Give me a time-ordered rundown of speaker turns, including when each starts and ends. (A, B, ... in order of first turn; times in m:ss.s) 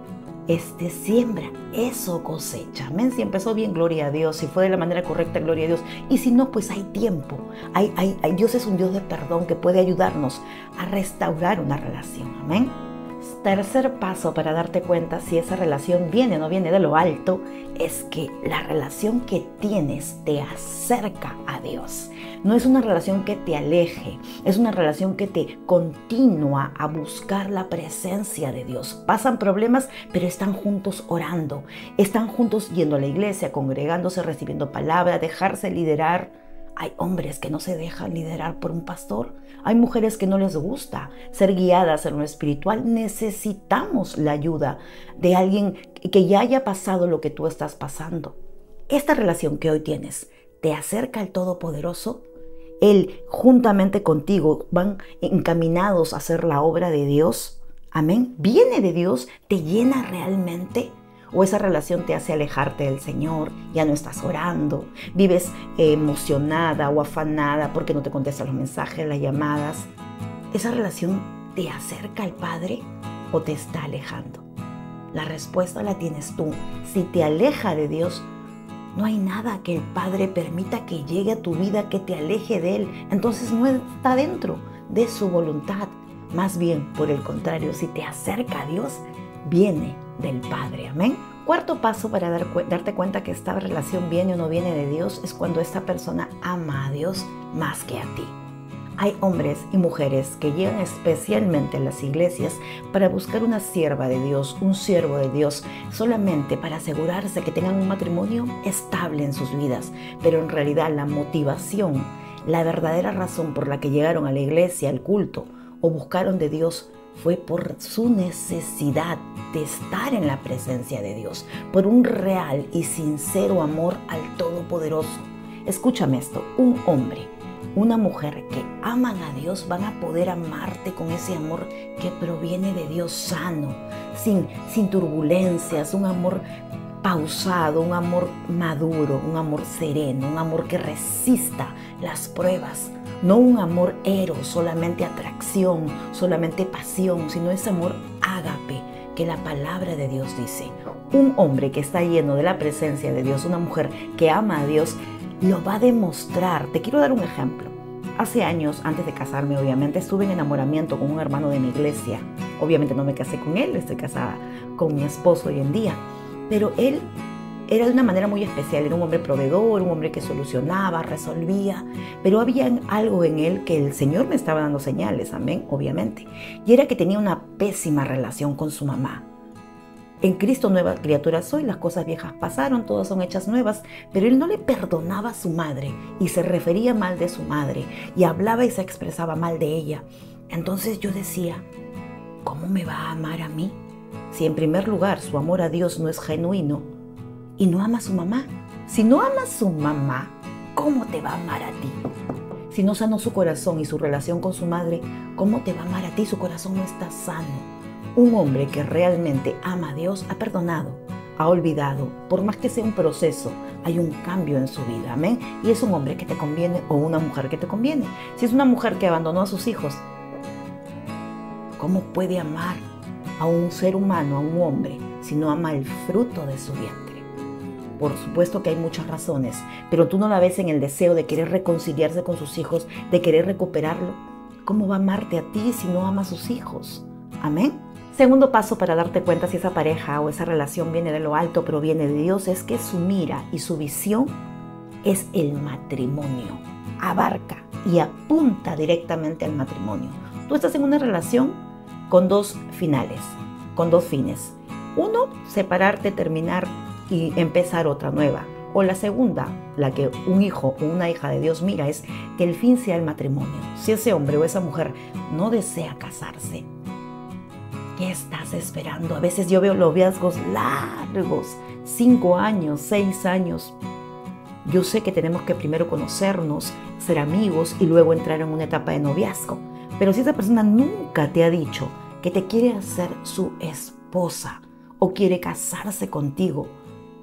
0:00.5-0:48.4 A
0:48.9-0:52.2 A
0:52.8-1:09.9 A
1:10.5-1:14.4 A
1:15.1-1:18.3 A
1:18.9-1:38.4 A
1:39.0-2:16.4 A
2:17.0-2:47.1 A
2:47.7-2:59.3 A
3:00.2-3:11.6 A
3:12.4-3:13.8 A
3:14.3-3:16.9 A
3:17.6-3:22.0 A
3:22.7-3:40.1 A
3:41.8-3:42.9 A
3:43.4-3:47.2 A
3:48.0-4:04.4 A
4:05.0-4:26.7 A
4:28.0-4:33.8 A
4:34.6-4:46.8 A